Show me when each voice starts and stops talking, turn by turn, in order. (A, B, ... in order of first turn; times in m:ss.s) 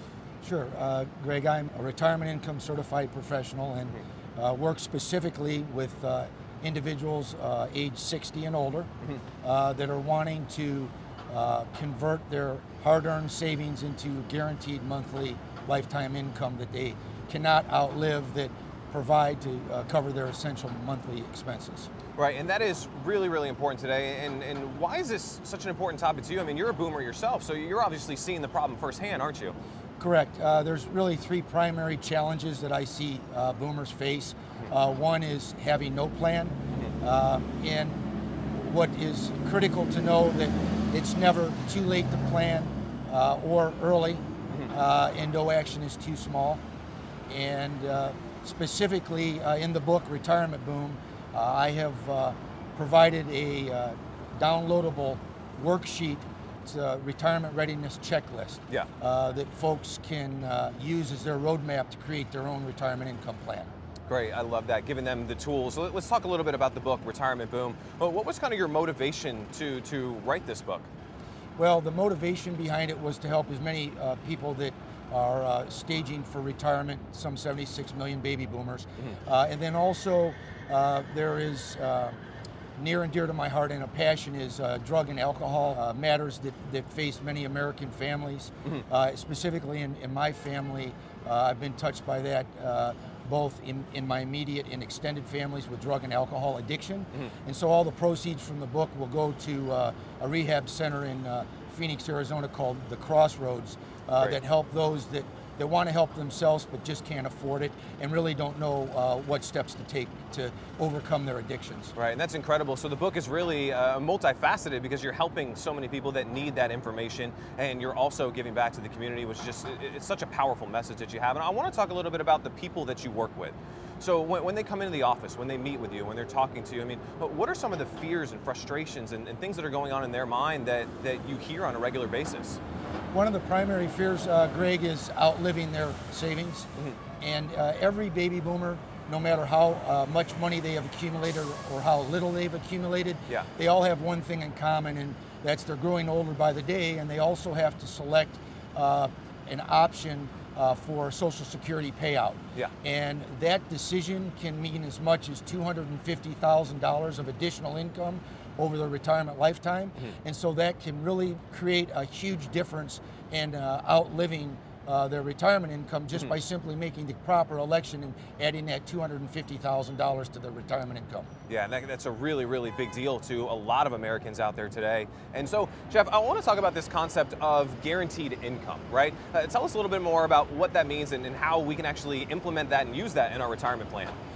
0:00.4-0:08.9 A
0:09.4-0:21.9 A
0:22.2-0:29.5 B
0:30.0-0:46.6 A
0:47.3-1:03.7 A
1:04.1-1:10.9 B
1:11.6-1:22.2 A
1:22.8-1:51.9 A
1:52.0-2:12.6 B
2:13.1-2:16.7 A
2:17.2-2:51.3 A
2:51.5-3:04.2 B